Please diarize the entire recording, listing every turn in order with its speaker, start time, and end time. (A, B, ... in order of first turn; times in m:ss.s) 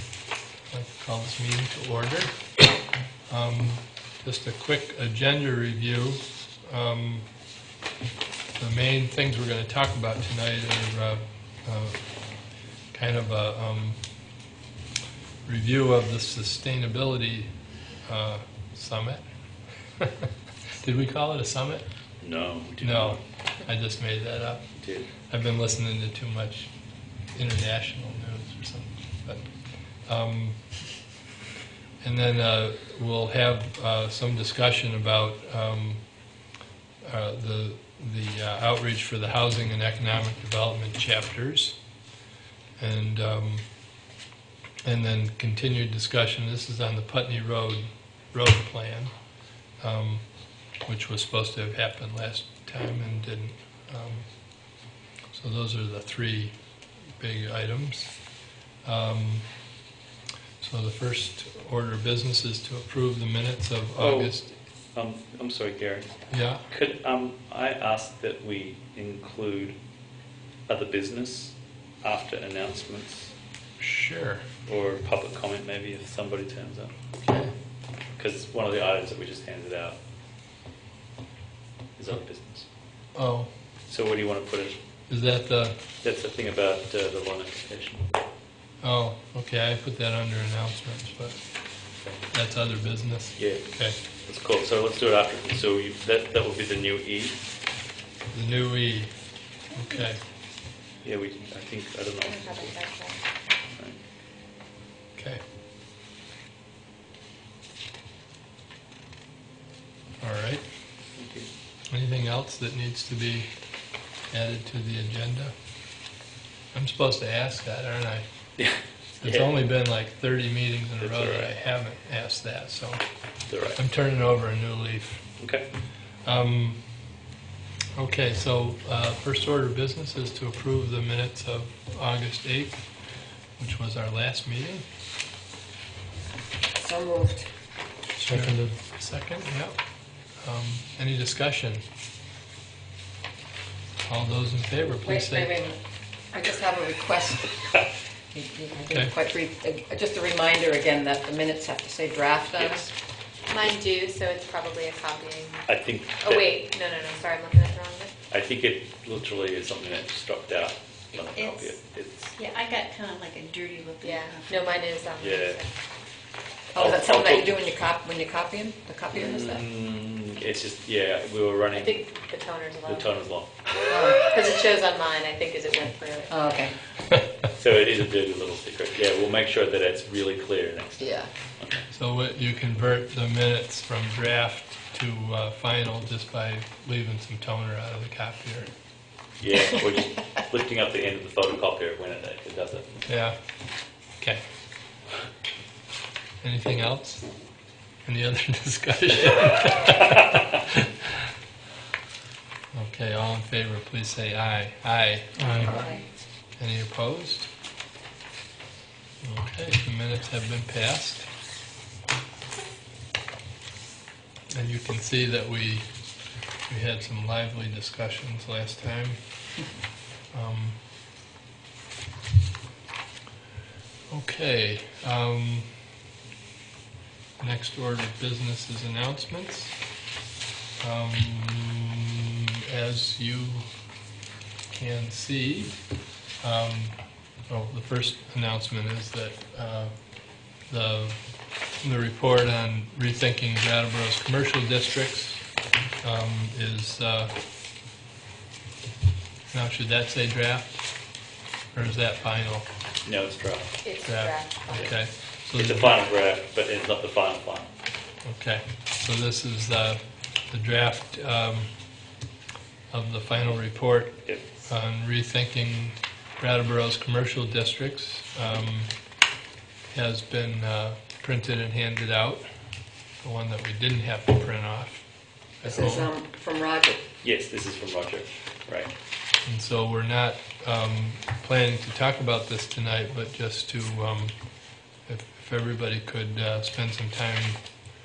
0:00.7-0:02.4 A
0:03.3-0:07.3 A
0:08.6-0:12.0 A
0:12.9-0:14.0 A
0:15.4-0:17.5 A
0:18.0-0:19.2 A
0:20.0-0:21.8 A
0:22.2-0:23.2 B
0:22.8-0:24.7 A
0:24.8-0:25.1 B
0:25.3-0:26.7 A
0:27.3-0:29.5 A
0:30.0-0:30.6 A
0:32.0-0:36.0 A
0:37.0-0:41.8 A
0:42.8-0:43.6 A
0:44.8-0:49.1 A
0:49.8-0:50.2 A
0:50.8-0:54.3 A
0:55.3-0:56.5 A
0:57.2-0:58.1 A
0:58.8-0:59.5 A
1:00.6-1:04.4 A
1:04.0-1:06.1 B
1:06.3-1:06.6 A
1:06.7-1:09.8 B
1:10.7-1:13.3 B
1:13.8-1:14.4 A
1:14.7-1:17.0 B
1:17.2-1:17.5 A
1:18.2-1:20.0 B
1:22.0-1:22.6 B
1:23.1-1:23.5 A
1:23.9-1:24.8 B
1:25.1-1:25.8 A
1:26.0-1:28.1 B
1:28.8-1:31.4 A
1:32.3-1:34.0 A
1:33.4-1:33.6 B
1:34.2-1:37.4 B
1:38.3-1:39.1 A
1:39.7-1:40.2 A
1:41.0-1:42.8 B
1:42.2-1:43.2 C
1:43.7-1:44.0 B
1:45.2-1:45.4 A
1:50.2-1:50.6 A
1:51.2-1:51.5 B
1:51.9-1:53.5 A
1:54.3-1:55.5 A
1:56.7-1:58.3 A
1:58.6-1:59.5 B
1:59.2-2:03.0 A
2:01.0-2:01.6 B
2:03.5-2:03.8 B
2:03.7-2:05.3 A
2:05.4-2:05.6 B
2:06.2-2:06.8 A
2:08.0-2:12.8 A
2:13.6-2:14.8 A
2:16.8-2:17.5 D
2:18.2-2:19.8 A
2:20.4-2:21.8 A
2:24.0-2:25.5 A
2:25.0-2:25.8 D
2:26.3-2:27.8 D
2:28.3-2:32.9 D
2:32.5-2:32.9 B
2:33.5-2:35.7 C
2:35.7-2:36.6 B
2:36.2-2:38.1 C
2:38.3-2:42.3 B
2:41.2-2:41.7 E
2:42.4-2:44.9 E
2:44.0-2:45.7 C
2:45.2-2:45.6 B
2:46.7-2:49.6 D
2:46.7-2:47.6 B
2:49.1-2:52.2 B
2:51.7-2:53.1 C
2:52.8-2:54.0 B
2:53.9-2:54.2 D
2:54.2-2:56.4 C
2:56.3-2:56.8 D
2:57.5-3:01.8 B
3:01.0-3:01.3 D
3:01.9-3:08.7 A
3:09.4-3:13.0 B
3:13.0-3:13.4 A
3:16.4-3:17.2 A
3:18.0-3:20.9 A
3:22.7-3:25.9 A
3:25.5-3:26.0 D
3:26.6-3:27.5 A
3:29.2-3:31.3 A
3:34.5-3:35.9 A
3:36.7-3:39.2 A
3:40.3-3:40.8 A
3:44.1-3:45.7 A
3:47.4-3:49.8 A
3:50.8-3:53.7 A
3:54.7-3:55.8 A
3:56.4-3:57.0 A
3:57.5-3:59.9 A
4:00.7-4:01.2 A
4:01.8-4:05.4 A
4:06.0-4:07.3 A
4:09.5-4:10.8 A
4:11.7-4:12.7 A
4:13.0-4:13.7 B
4:13.8-4:14.9 C
4:14.0-4:16.0 A
4:15.5-4:17.7 B
4:18.2-4:21.7 A
4:22.9-4:28.9 A
4:29.9-4:32.4 A
4:33.2-4:35.0 A
4:35.6-4:36.1 A
4:35.6-4:37.0 D
4:37.2-4:38.9 B
4:39.4-4:44.3 A
4:45.1-4:47.6 A